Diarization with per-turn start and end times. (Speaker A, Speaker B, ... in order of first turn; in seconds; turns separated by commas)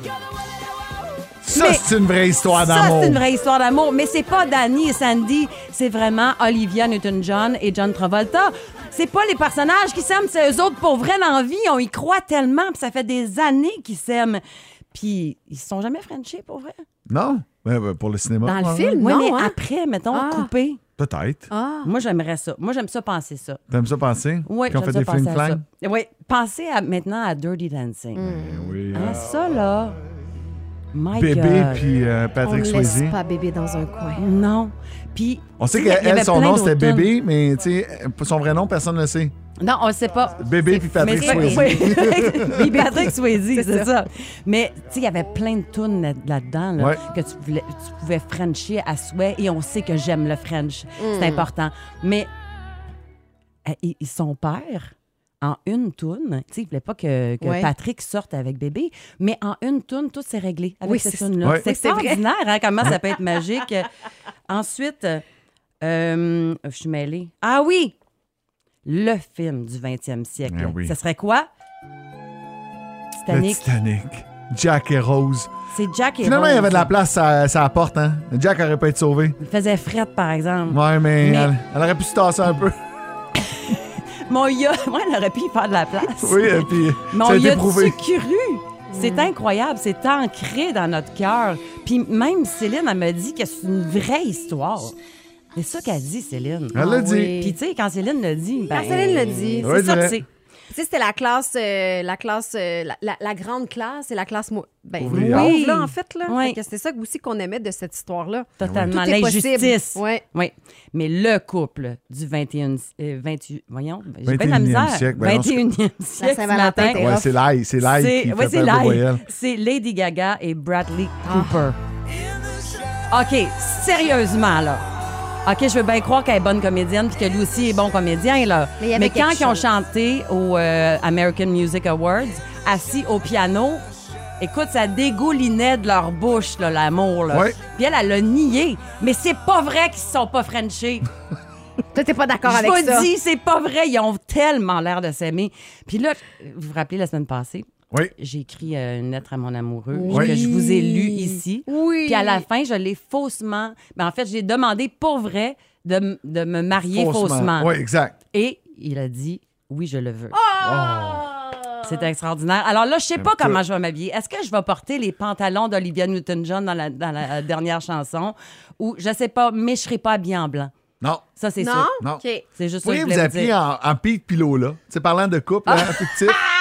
Speaker A: 1.4-3.2, Speaker B: 1.5-1.9, Speaker B: 2.4-16.8, Speaker A: 17.1-18.9, Speaker C: 18.4-19.6, Speaker B: 19.0-20.8, Speaker C: 20.1-20.5, Speaker A: 21.0-21.5, Speaker C: 21.5-21.9, Speaker B: 21.8-23.6, Speaker A: 23.7-25.6, Speaker B: 24.4-30.0, Speaker C: 28.1-28.7, Speaker A: 28.3-29.2, Speaker B: 30.9-31.9, Speaker A: 31.1-33.2, Speaker C: 32.4-34.2, Speaker B: 34.1-37.1, Speaker A: 35.6-39.3, Speaker B: 39.6-52.3, Speaker A: 40.4-42.9, Speaker C: 40.8-43.9, Speaker C: 51.0-51.5, Speaker B: 53.6-63.9, Speaker C: 57.4-57.7, Speaker C: 60.8-62.2, Speaker B: 64.5-65.2, Speaker B: 65.8-67.9, Speaker B: 68.8-71.5, Speaker A: 70.5-70.9, Speaker B: 73.2-73.8, Speaker A: 73.3-75.5, Speaker B: 75.7-76.9, Speaker A: 76.2-79.4, Speaker B: 79.4-81.5, Speaker A: 80.7-82.8, Speaker B: 83.3-94.9, Speaker A: 86.1-88.0, Speaker C: 88.9-89.3, Speaker B: 95.5-96.8, Speaker A: 96.7-97.4, Speaker C: 96.7-97.6, Speaker B: 97.3-100.2, Speaker C: 98.7-99.8, Speaker A: 99.6-100.2, Speaker C: 100.7-110.2, Speaker A: 105.0-105.6, Speaker B: 105.1-106.6, Speaker B: 108.6-117.1, Speaker A: 108.6-108.9, Speaker A: 114.2-115.6, Speaker C: 116.2-117.3, Speaker A: 116.8-119.2, Speaker B: 117.8-121.8, Speaker C: 121.2-121.7, Speaker B: 123.1-124.8, Speaker B: 125.4-133.8, Speaker C: 128.8-129.7, Speaker B: 134.4-141.1, Speaker A: 137.3-137.6, Speaker C: 141.9-143.1, Speaker B: 142.4-157.8, Speaker C: 149.9-152.4, Speaker A: 150.1-150.5, Speaker A: 156.9-158.2, Speaker B: 158.3-160.4, Speaker C: 160.3-162.1, Speaker A: 160.6-161.3, Speaker B: 161.8-170.7, Speaker A: 163.1-163.6, Speaker B: 171.4-171.9, Speaker C: 171.6-172.4, Speaker B: 172.6-173.5, Speaker A: 172.8-176.4, Speaker B: 175.7-176.2